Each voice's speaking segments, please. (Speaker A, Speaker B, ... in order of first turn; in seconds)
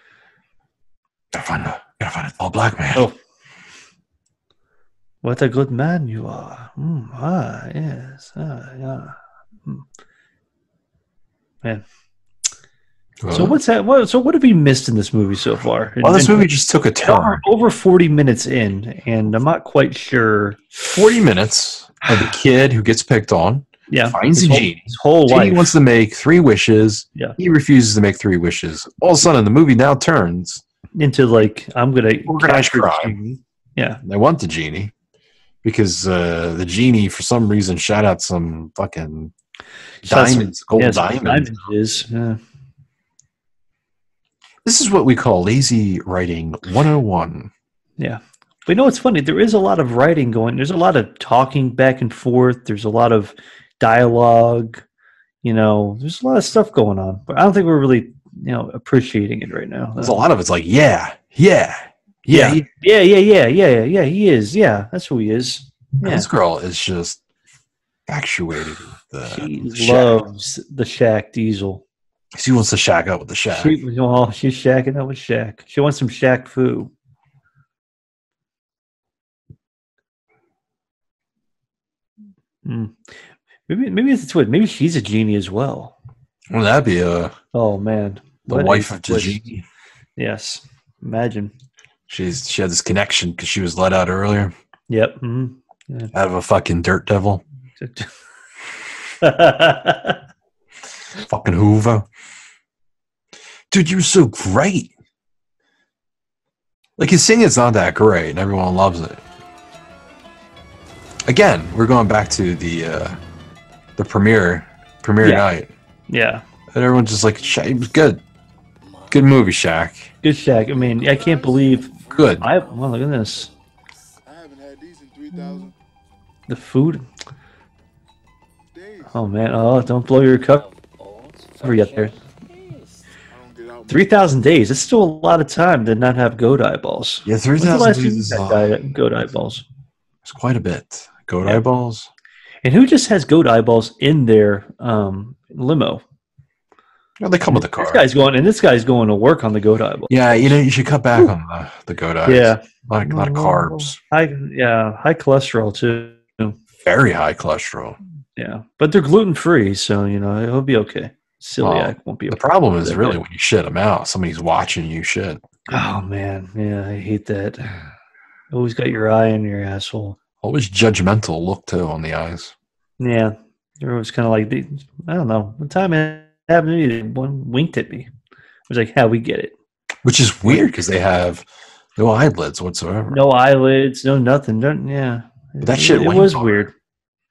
Speaker A: 1.3-3.1, 13.2-13.6, 16.0-17.4, 20.8-30.6, 32.2-33.2, 34.0-34.9, 35.6-39.3, 40.0-41.7, 44.6-47.5, 60.0-62.6, 66.0-67.2, 68.1-70.2, 72.3-73.8, 86.5-87.3, 88.5-89.6, 92.1-94.5, 96.1-97.4, 101.2-102.1, 103.7-104.9, 107.0-109.2, 111.2-113.2, 114.0-115.7, 116.7-118.2, 119.1-120.1, 122.1-122.5, 137.2-138.8, 140.2-142.1, 147.2-148.1, 150.1-154.0, 156.8-158.0, 161.6-165.4, 170.4-172.5, 180.0-181.4, 182.0-183.2, 185.6-186.7
Speaker B: 5.2-9.1, 13.3-16.5, 17.0-20.6, 23.9-25.7, 30.9-34.0, 40.0-42.4, 48.0-54.8, 55.4-60.2, 62.3-66.3, 69.2-71.8, 73.5-76.9, 82.6-83.1, 83.7-85.9, 87.5-89.4, 90.2-91.5, 94.9-96.1, 97.8-98.1, 99.2-100.2, 116.1-116.4, 120.2-123.5, 126.5-127.0, 129.1-130.7, 131.6-132.1, 133.9-139.6, 142.6-146.0, 147.5-150.6, 152.2-156.6, 158.4-163.2, 165.7-167.8, 168.5-170.2, 173.0-178.1, 178.7-179.5, 180.5-180.7, 183.1-186.7
Speaker C: 120.9-121.4, 124.2-125.7, 128.7-129.1, 133.3-134.2